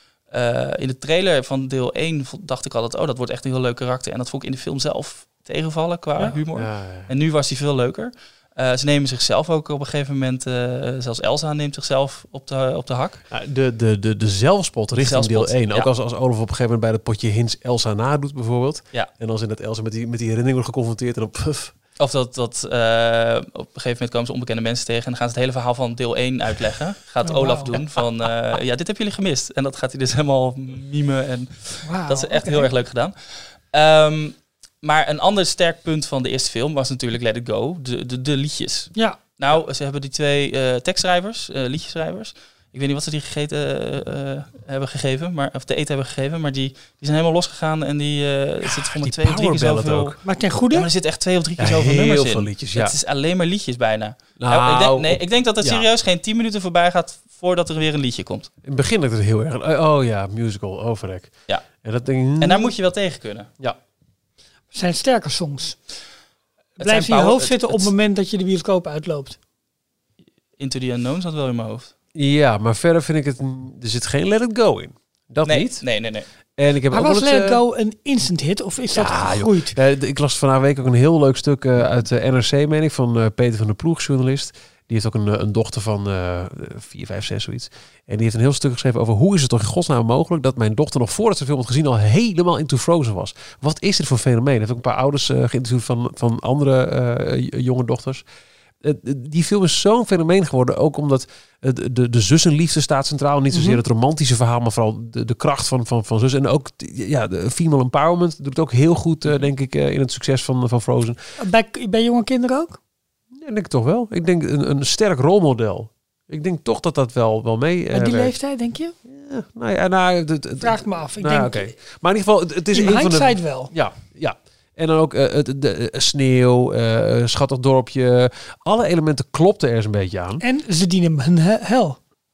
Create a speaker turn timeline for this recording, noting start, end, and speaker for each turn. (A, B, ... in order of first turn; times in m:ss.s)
0:00.3-0:13.2 A
0:06.5-0:07.1 B
0:13.3-0:21.7 B
0:15.0-0:15.9 A
0:22.0-0:50.2 A
0:27.2-0:27.7 C
0:31.8-0:32.7 C
0:48.6-0:50.2 B
0:50.2-0:50.9 C
0:50.7-0:58.5 A
0:51.6-0:52.9 B
0:54.4-0:55.9 B
0:58.6-1:02.7 B
1:02.4-1:03.5 A
1:04.7-1:05.8 C
1:06.8-1:07.9 A
1:06.8-1:09.4 C
1:10.6-1:11.9 A
1:12.1-1:15.8 B
1:15.4-1:16.3 A
1:16.6-1:17.6 B
1:16.9-1:19.8 C
1:18.9-1:38.2 B
1:38.8-1:51.2 B
1:43.5-1:43.8 C
1:51.4-1:52.8 C
1:53.4-1:58.3 B
1:57.9-1:58.9 C
1:59.0-2:10.4 B
2:00.6-2:01.7 C
2:02.7-2:03.7 C
2:10.4-2:12.0 C